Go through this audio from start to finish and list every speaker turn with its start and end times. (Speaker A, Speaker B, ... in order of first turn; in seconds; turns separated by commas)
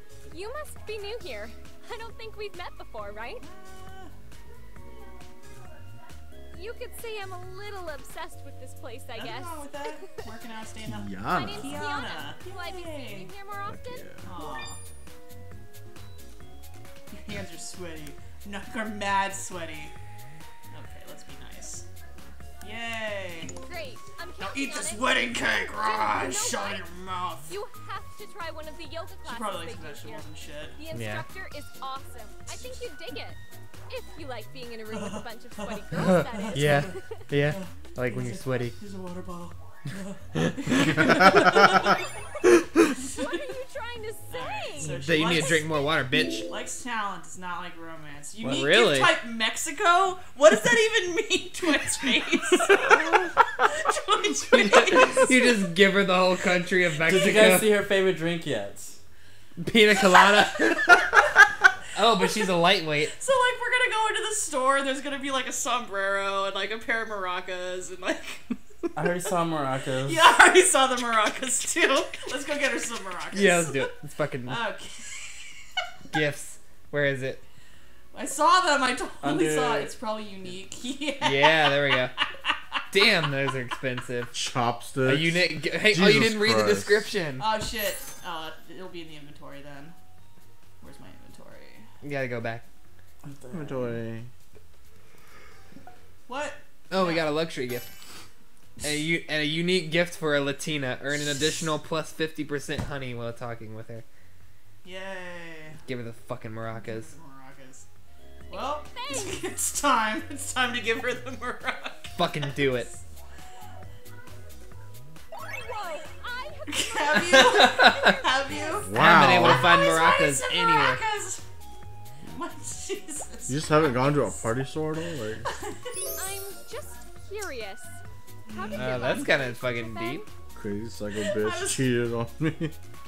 Speaker A: 0.2-3.4, Speaker B: 3.4-4.1, Speaker A: 6.5-10.2, Speaker B: 9.1-13.3, Speaker C: 10.8-11.8, Speaker A: 11.3-14.1, Speaker C: 13.7-14.3, Speaker B: 14.2-14.8, Speaker B: 17.1-19.9, Speaker B: 20.7-21.9, Speaker B: 22.6-23.6, Speaker A: 23.6-26.9, Speaker B: 24.4-27.5, Speaker A: 27.5-37.2, Speaker B: 29.2-30.8, Speaker D: 30.9-31.2, Speaker B: 34.9-42.1, Speaker D: 36.0-38.8, Speaker B: 42.8-43.4, Speaker A: 43.1-45.0, Speaker B: 44.3-55.6, Speaker D: 44.9-46.5, Speaker D: 48.4-49.1, Speaker D: 52.8-53.2, Speaker D: 54.7-57.7, Speaker E: 57.0-59.0, Speaker B: 57.0-57.6, Speaker D: 59.6-61.1, Speaker B: 59.9-61.4, Speaker D: 61.9-63.1, Speaker B: 62.1-62.5, Speaker B: 63.1-68.5, Speaker E: 68.9-70.2, Speaker B: 70.0-73.9, Speaker D: 73.3-74.6, Speaker B: 74.5-75.7, Speaker D: 76.1-77.4, Speaker B: 78.1-82.6, Speaker E: 79.2-79.9, Speaker D: 81.2-82.1, Speaker D: 82.9-84.3, Speaker C: 84.3-87.1, Speaker D: 85.0-87.5, Speaker B: 87.4-89.9, Speaker B: 90.8-91.9, Speaker D: 92.0-92.6, Speaker E: 93.2-94.0, Speaker C: 93.5-94.3, Speaker B: 96.3-97.3, Speaker D: 96.9-97.9, Speaker D: 98.8-104.0, Speaker B: 104.8-105.8, Speaker D: 105.8-107.1, Speaker B: 106.8-107.8, Speaker A: 108.5-109.4, Speaker B: 108.5-113.0, Speaker D: 112.1-112.9, Speaker A: 115.4-118.8, Speaker B: 116.7-121.4, Speaker D: 117.5-118.2, Speaker C: 118.8-119.8, Speaker D: 118.9-121.0, Speaker B: 122.2-124.5, Speaker C: 123.5-125.5, Speaker B: 125.5-126.1, Speaker A: 126.2-128.0, Speaker B: 128.5-129.3, Speaker A: 128.5-130.3, Speaker D: 128.7-130.2, Speaker C: 130.5-132.7, Speaker B: 131.2-131.8